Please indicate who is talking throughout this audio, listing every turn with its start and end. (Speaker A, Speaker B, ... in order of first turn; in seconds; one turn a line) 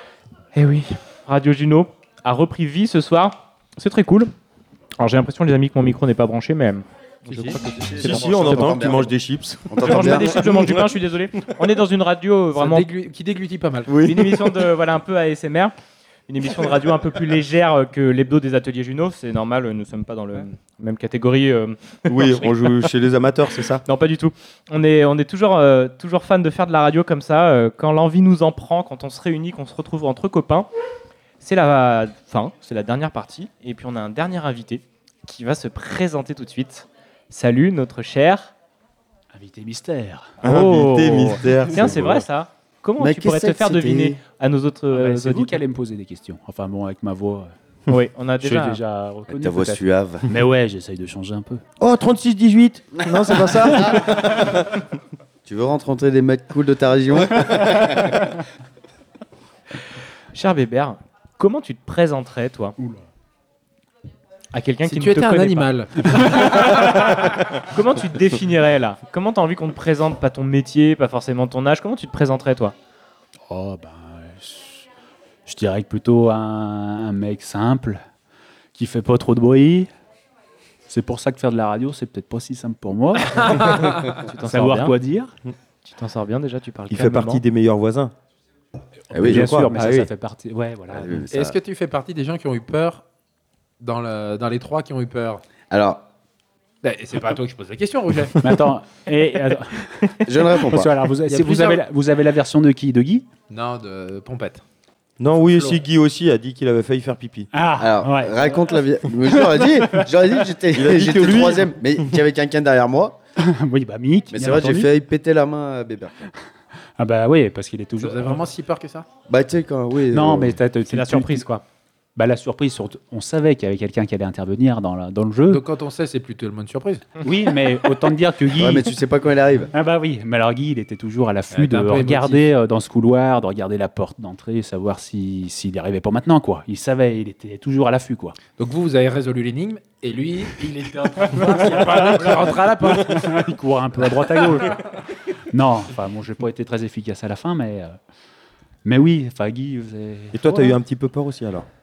Speaker A: 0.5-4.3
Speaker A: 5.0-6.9
Speaker B: 7.3-7.5
Speaker C: 7.3-9.1
Speaker A: 7.5-8.7
Speaker D: 7.9-10.9
Speaker C: 9.7-10.4
Speaker A: 9.8-12.9
Speaker B: 12.5-14.0
Speaker D: 13.9-14.6
Speaker A: 14.0-15.7
Speaker A: 16.3-22.5
Speaker D: 22.1-23.8
Speaker A: 23.8-30.7
Speaker A: 31.4-38.5
Speaker E: 39.3-40.4
Speaker A: 40.4-45.6
Speaker D: 40.4-42.3
Speaker E: 41.5-41.9
Speaker C: 43.0-44.2
Speaker E: 44.9-47.5
Speaker A: 47.9-48.8
Speaker E: 48.4-51.6
Speaker C: 49.3-50.3
Speaker D: 51.8-54.8
Speaker C: 53.2-54.4
Speaker C: 55.5-58.4
Speaker A: 60.3-62.8
Speaker E: 62.8-63.0
Speaker A: 64.5-72.7
Speaker B: 64.8-66.7
Speaker E: 73.5-74.8
Speaker E: 75.5-78.0
Speaker E: 78.8-79.9
Speaker E: 80.9-85.3
Speaker A: 83.9-85.0
Speaker A: 85.8-87.4
Speaker D: 86.9-88.1
Speaker E: 89.1-91.3
Speaker C: 89.1-89.5
Speaker D: 89.3-90.1
Speaker C: 90.9-91.6
Speaker B: 91.3-93.0
Speaker B: 93.8-95.4
Speaker C: 95.7-96.1
Speaker B: 96.8-98.5
Speaker E: 98.4-103.3
Speaker A: 99.3-100.5
Speaker C: 100.2-100.9
Speaker B: 101.2-101.8
Speaker B: 103.5-104.6
Speaker D: 105.2-107.5
Speaker B: 105.5-105.8
Speaker E: 107.5-108.6
Speaker C: 107.8-113.2
Speaker E: 109.2-110.1
Speaker D: 110.7-112.2
Speaker E: 113.4-114.9
Speaker C: 114.3-116.3
Speaker E: 117.0-118.4
Speaker B: 118.0-119.1
Speaker C: 119.3-120.6
Speaker E: 120.1-121.5
Speaker A: 120.9-121.6
Speaker E: 122.2-125.6
Speaker B: 125.5-127.1
Speaker E: 127.2-128.9
Speaker C: 128.5-129.7
Speaker E: 129.7-138.4
Speaker B: 131.5-132.5
Speaker B: 138.6-143.2
Speaker E: 141.3-145.0
Speaker E: 145.5-148.0
Speaker E: 148.8-150.8
Speaker D: 150.3-151.7